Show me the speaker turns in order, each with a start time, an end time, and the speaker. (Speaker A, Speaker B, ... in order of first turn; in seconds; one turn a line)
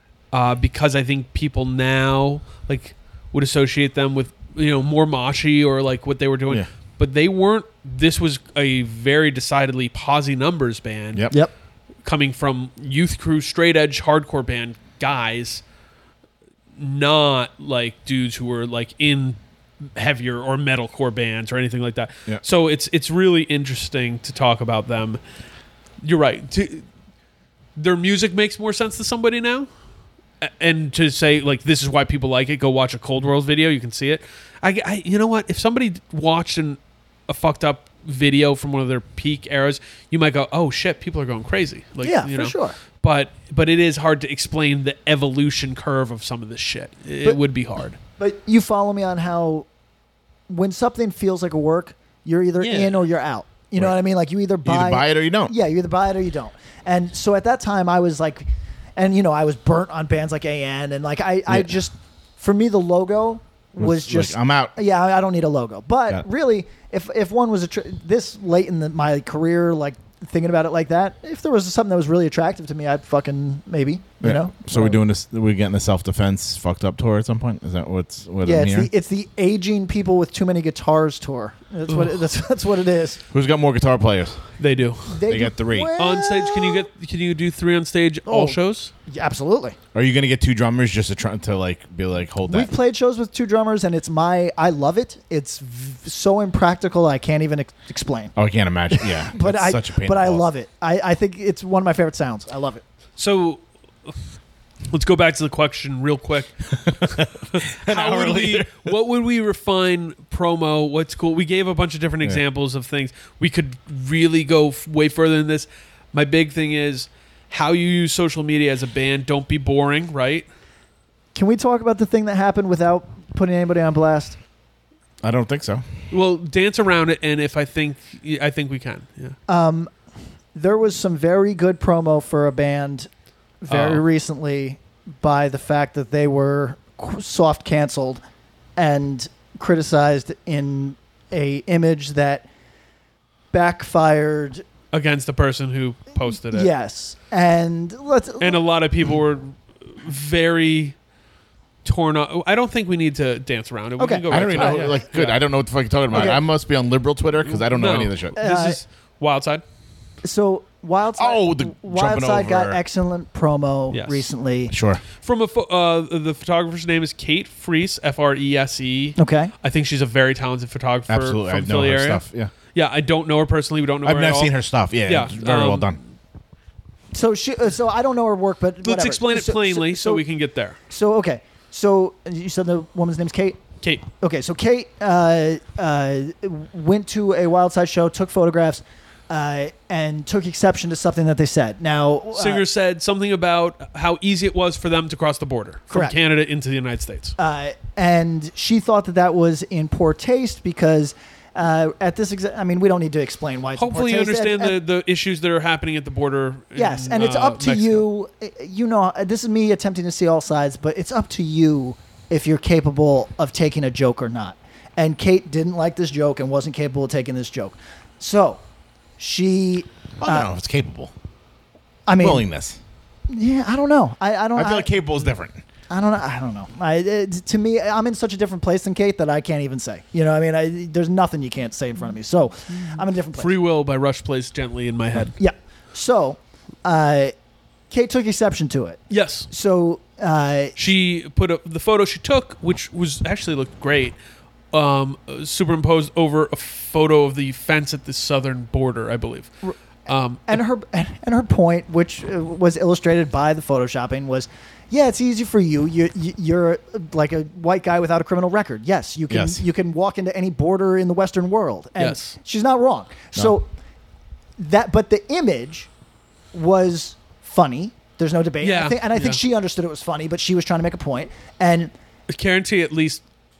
Speaker A: 0.3-11.3
Speaker B: 11.1-11.4
Speaker A: 12.0-15.6
Speaker A: 16.8-25.2
Speaker A: 26.0-26.8
Speaker A: 27.8-29.7
Speaker A: 30.4-48.0
Speaker C: 42.0-42.8
Speaker C: 48.2-49.7
Speaker C: 50.5-75.0
Speaker A: 52.6-53.0
Speaker B: 54.6-55.5
Speaker B: 61.5-61.7
Speaker B: 63.8-64.7
Speaker B: 74.2-78.9
Speaker C: 78.4-83.2
Speaker A: 81.9-82.1
Speaker B: 83.3-84.4
Speaker A: 84.6-85.2
Speaker C: 85.1-86.9
Speaker B: 85.3-85.9
Speaker A: 86.0-88.9
Speaker C: 88.3-89.8
Speaker B: 89.9-92.7
Speaker C: 92.5-98.3
Speaker B: 98.3-100.5
Speaker C: 98.9-102.8
Speaker A: 103.2-104.1
Speaker A: 104.9-120.5
Speaker B: 106.9-108.9
Speaker C: 121.3-124.4
Speaker B: 125.2-125.8
Speaker A: 126.1-129.3
Speaker C: 129.5-129.9
Speaker C: 130.5-133.1
Speaker C: 133.6-138.2
Speaker A: 133.7-134.0
Speaker C: 138.8-142.5
Speaker C: 143.5-144.6
Speaker A: 144.9-146.7
Speaker C: 146.4-148.6
Speaker A: 148.4-150.9
Speaker A: 151.8-155.4
Speaker C: 154.0-155.0
Speaker B: 154.3-158.4
Speaker C: 156.1-156.4
Speaker A: 157.5-159.6
Speaker C: 158.4-158.8
Speaker C: 160.2-164.7
Speaker B: 161.2-162.8
Speaker A: 163.9-164.3
Speaker B: 164.7-165.0
Speaker A: 165.2-176.0
Speaker C: 169.2-169.5
Speaker B: 171.1-172.5
Speaker B: 174.0-176.0
Speaker C: 177.1-180.2
Speaker A: 178.8-180.8
Speaker C: 180.9-183.6
Speaker C: 184.2-192.6
Speaker A: 192.3-197.3
Speaker C: 195.9-196.2
Speaker C: 197.4-204.8
Speaker A: 203.8-208.0
Speaker C: 206.7-218.6
Speaker C: 219.2-220.5
Speaker B: 220.2-221.1
Speaker C: 222.1-222.4
Speaker B: 222.2-222.8
Speaker C: 223.3-225.0
Speaker B: 224.5-225.6
Speaker C: 225.9-233.5
Speaker A: 233.3-235.3
Speaker C: 235.2-237.3
Speaker C: 237.9-240.8
Speaker A: 239.1-239.5
Speaker A: 240.8-244.2
Speaker A: 244.7-249.5
Speaker A: 250.1-250.6
Speaker C: 250.5-263.7
Speaker B: 259.3-259.6
Speaker A: 262.0-262.4
Speaker C: 264.6-265.9
Speaker C: 266.5-271.9
Speaker A: 268.6-269.4
Speaker A: 272.3-273.2